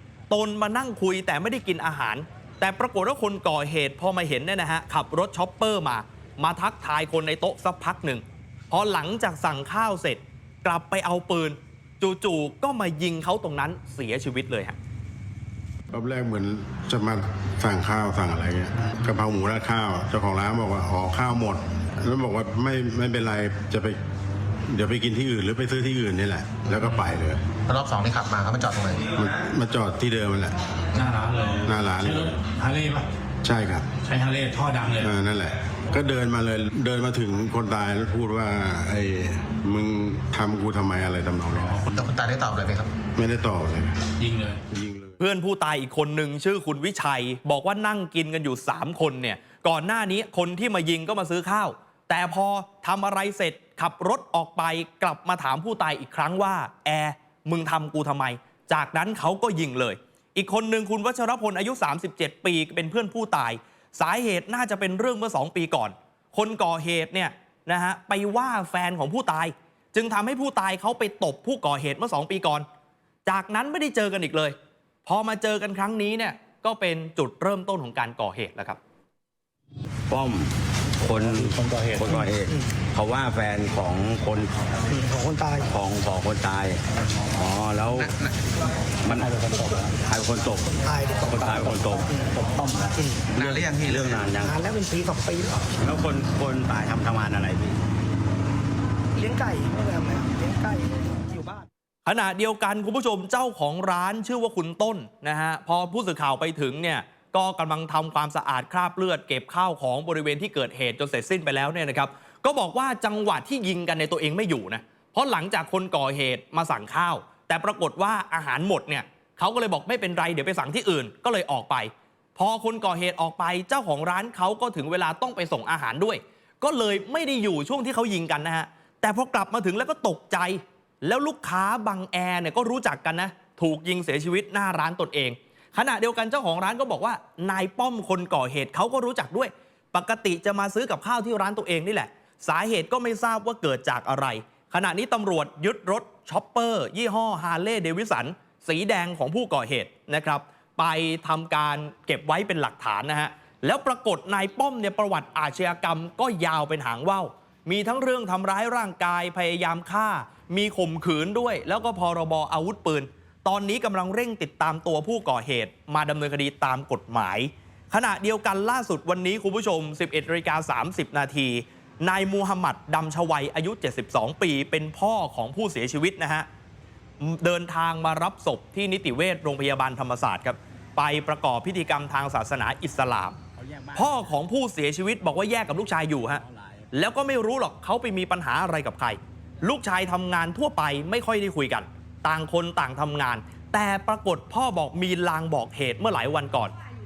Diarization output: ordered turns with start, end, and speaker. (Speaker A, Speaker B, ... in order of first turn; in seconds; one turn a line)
Speaker A: 0.3-14.8
Speaker B: 15.9-24.0
Speaker B: 24.7-27.4
Speaker C: 27.7-29.1
Speaker B: 29.1-30.6
Speaker D: 31.0-33.1
Speaker B: 31.7-32.4
Speaker B: 33.4-33.9
Speaker D: 34.0-35.1
Speaker B: 35.0-41.8
Speaker C: 41.9-42.9
Speaker B: 43.1-44.0
Speaker D: 44.2-44.6
Speaker B: 44.7-45.2
Speaker A: 45.2-72.7
Speaker A: 73.3-78.8
Speaker E: 80.1-84.5
Speaker F: 84.9-85.7
Speaker E: 85.7-86.8
Speaker E: 87.3-88.2
Speaker E: 89.0-89.4
Speaker E: 90.0-90.7
Speaker F: 90.8-91.8
Speaker E: 91.3-92.1
Speaker E: 93.3-94.6
Speaker F: 94.3-95.6
Speaker E: 95.8-97.8
Speaker F: 99.2-101.7
Speaker A: 102.1-176.5
Speaker A: 177.2-183.4
Speaker E: 183.7-184.0
Speaker A: 183.9-196.7